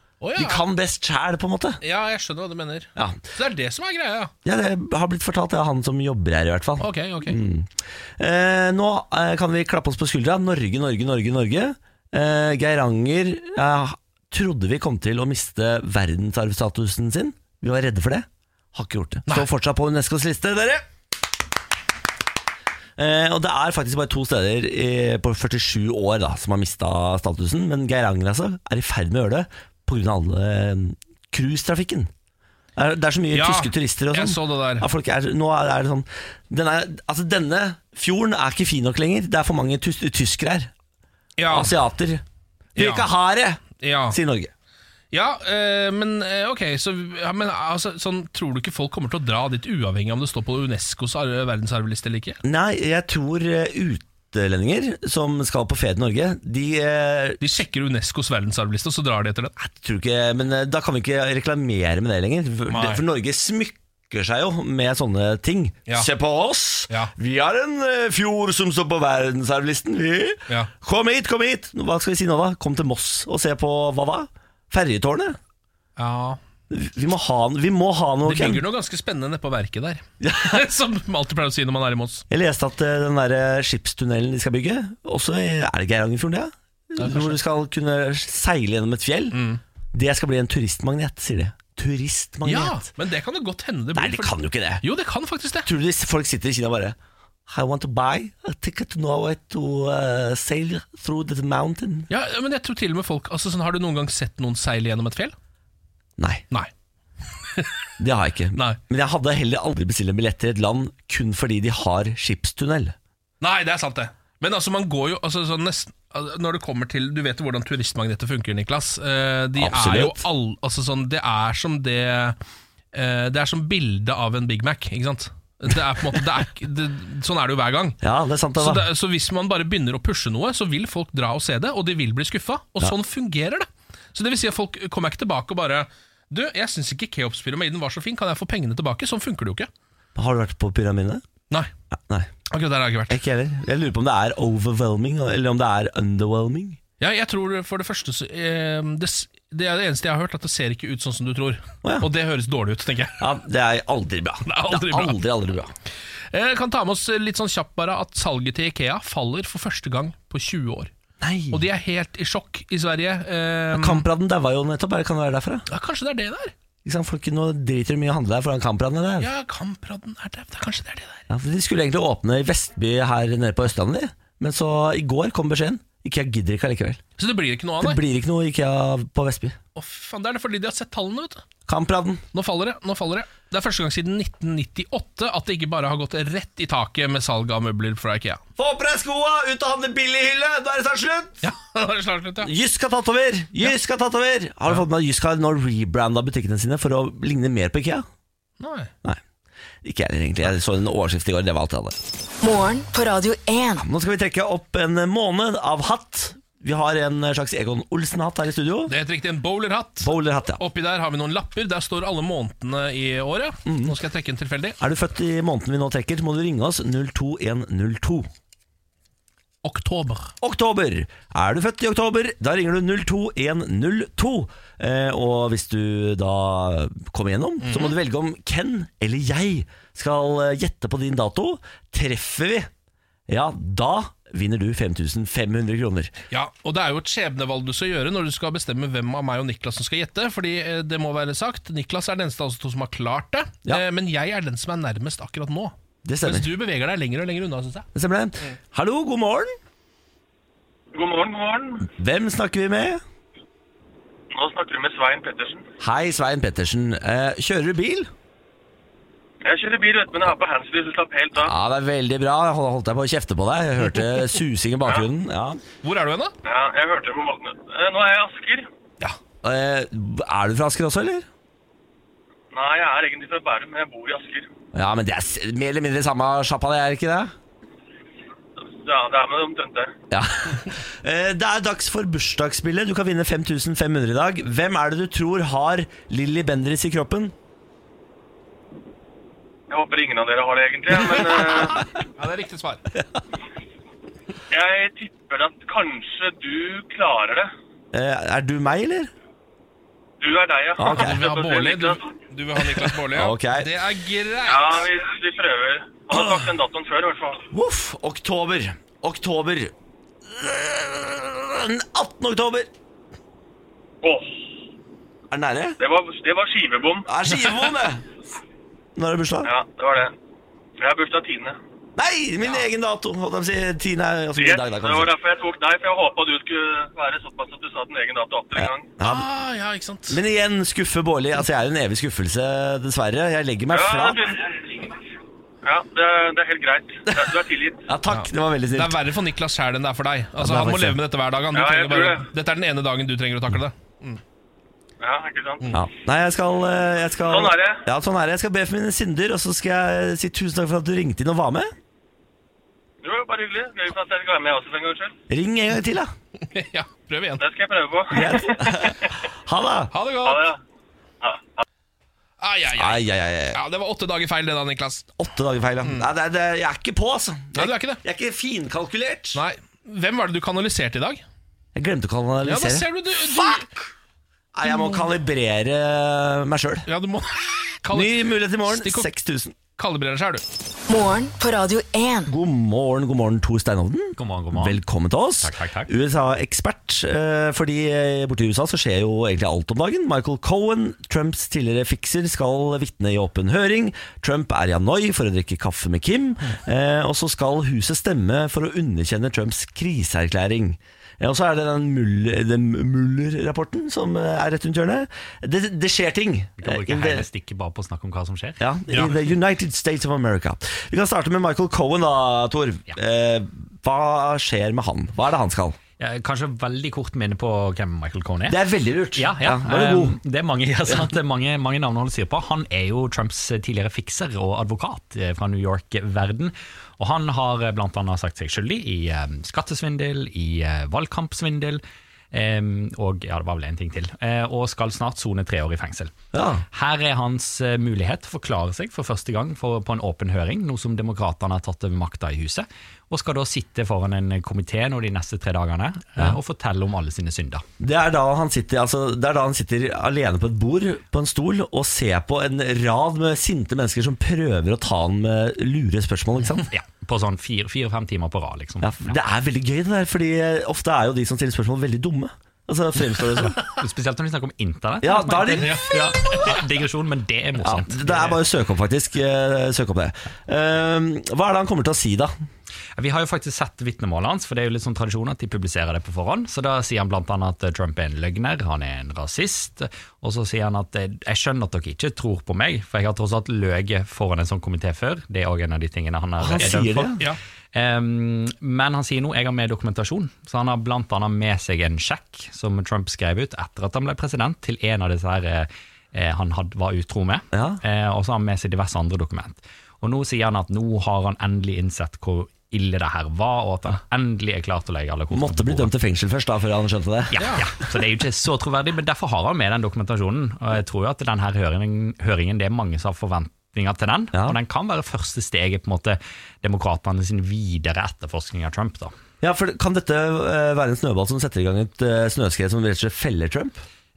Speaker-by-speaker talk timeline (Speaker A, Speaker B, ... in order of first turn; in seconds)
Speaker A: 0.2-0.6, 1.8-4.3, 6.8-7.4, 33.3-34.9, 41.4-41.7, 42.8-43.1, 43.8-44.2, 45.1-52.4, 57.4-59.5, 62.7-63.0, 76.0-76.4, 78.2-82.2, 87.0-87.4, 89.3-89.6, 92.4-95.7, 102.1-105.3, 113.4-122.4, 122.9-128.0, 128.6-139.7, 142.5-143.2, 147.0-153.2, 154.4-155.2, 156.3-160.9, 161.5-164.0, 165.7-166.5, 169.2-171.2, 177.2-178.0, 179.7-181.4, 182.3-188.4, 191.4-192.5, 198.6-198.9, 208.9-214.8, 219.6-220.3, 227.6-227.9, 236.3-247.8, 265.8-266.3, 292.1-292.8, 300.9-304.8, 329.0-330.2, 338.1-344.2, 356.4-357.4, 359.9-360.5, 362.4-365.1, 367.5-368.0, 369.3-371.2, 372.4-373.7, 374.7-375.0, 376.9-379.1, 379.8-380.4, 465.5-466.6, 507.4-507.6
Speaker B: 0.3-1.8, 3.0-3.2, 4.4-20.9, 23.0-32.1, 32.8-40.7, 41.5-42.2, 42.8-44.5, 52.4-57.4, 59.6-75.4, 76.7-78.7, 80.2-80.6, 82.3-89.4, 89.9-92.9, 93.9-94.8, 95.6-102.1, 106.2-106.4, 108.0-113.0, 119.6-120.3, 128.0-128.9, 140.1-141.2, 143.1-146.8, 151.8-152.1, 153.2-155.7, 161.2-161.6, 163.7-165.7, 166.8-169.3, 171.3-177.0, 177.8-179.6, 181.7-182.2, 188.6-191.4, 192.4-198.1, 199.8-202.0, 203.8-208.9, 210.0-210.6, 213.6-213.9, 214.8-218.3, 220.4-232.7, 233.3-236.1, 246.0-246.5, 247.9-249.6, 251.9-253.0, 255.8-258.1, 261.3-265.6, 269.4-271.2, 274.7-277.3, 280.1-287.3, 297.9-299.1, 300.8-301.2, 303.0-303.7, 307.5-309.7, 310.2-312.7, 315.3-315.8, 317.1-318.0, 318.9-319.5, 322.0-325.1, 328.6-329.3, 330.1-334.4, 337.9-339.0, 340.4-341.0, 345.7-351.7, 355.3-356.1, 358.1-359.9, 362.7-363.6, 365.2-369.4, 371.7-373.6, 374.5-376.9, 377.9-379.5, 382.3-407.3, 408.6-415.8, 418.5-420.2, 436.3-436.6, 447.8-456.7, 458.8-463.6, 465.0-466.3, 467.6-472.3, 486.4-487.2, 497.5-497.8, 505.3-507.9, 514.3-514.6, 519.4-523.8
Speaker C: 202.4-203.8, 380.9-382.3
Speaker D: 250.9-251.9, 254.3-255.6, 259.4-261.5, 266.4-268.7, 272.5-274.5, 278.6-279.9, 289.7-291.9, 294.5-297.5, 300.2-302.1, 304.4-307.4, 314.0-314.4, 315.8-317.1, 319.4-320.1, 320.8-321.6, 324.4-328.9, 333.7-334.9, 335.6-337.9, 341.5-342.2, 345.0-345.7, 347.3-347.8, 353.0-355.1, 357.4-359.2, 360.2-360.6, 361.2-361.6
Speaker E: 384.2-384.8, 385.4-385.9, 406.6-408.6, 416.0-418.6, 419.1-436.1, 436.7-447.6, 456.7-459.1, 463.5-468.4, 473.0-505.9, 507.3-519.1